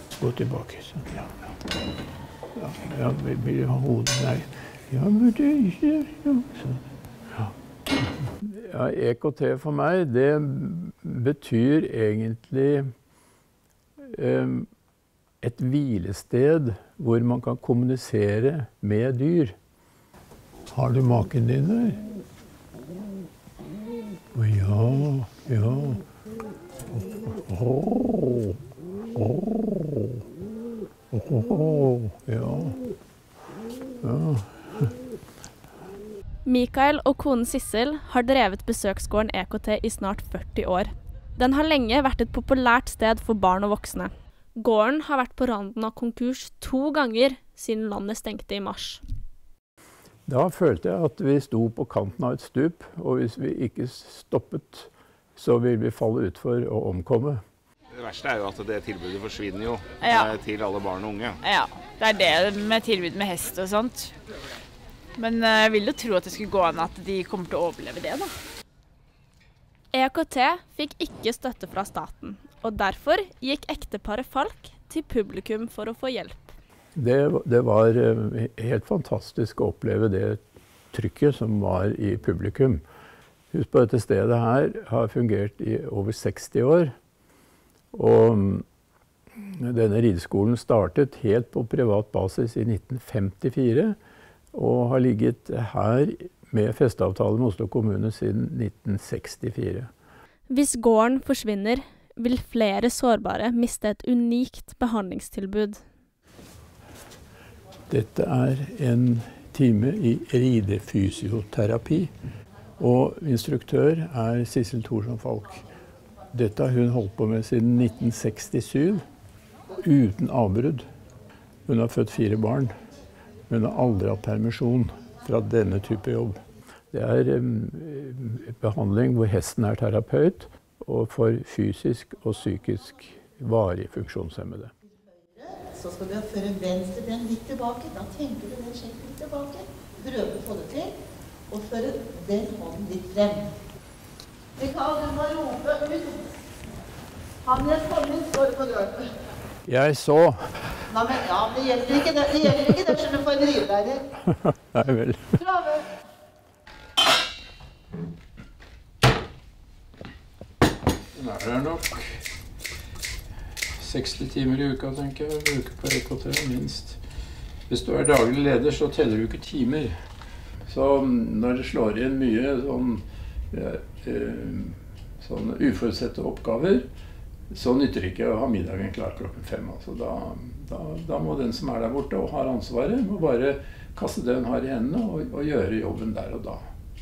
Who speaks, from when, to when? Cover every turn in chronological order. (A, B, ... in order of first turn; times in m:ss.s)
0:00.2-0:01.5 A
0:02.6-0:06.8 A
0:08.4-0:12.9 A
0:14.1-0:14.7 A
0:15.4-0:19.6 A
0:20.7-0:22.0 A
0:24.3-0:26.0 A
0:26.9-0:28.6 A
0:29.2-0:30.2 A
0:31.1-0:32.8 A
0:34.0-0:34.9 A
0:36.4-0:49.0 B
0:50.3-0:57.4 A
0:58.0-1:01.4 C
1:00.0-1:00.3 D
1:01.4-1:04.1 D
1:05.2-1:08.3 D
1:09.9-1:16.5 B
1:17.0-1:20.4 A
1:20.9-1:22.8 A
1:23.5-1:26.9 A
1:27.9-1:28.6 A
1:29.4-1:34.0 A
1:34.5-1:39.9 A
1:40.5-1:45.8 B
1:47.9-1:52.1 A
1:52.8-1:55.6 A
1:56.3-1:59.0 A
1:59.8-2:00.8 A
2:01.7-2:02.7 A
2:03.5-2:06.4 A
2:06.9-2:14.7 A
2:15.4-2:20.9 E
2:21.5-2:23.5 E
2:24.6-2:26.2 E
2:27.4-2:29.1 E
2:29.7-2:30.6 A
2:30.9-2:34.0 E
2:34.3-2:35.4 A
2:35.4-2:35.9 E
2:41.2-2:42.2 A
2:43.8-2:47.0 A
2:47.7-2:49.9 A
2:50.7-2:56.9 A
2:57.5-3:06.6 A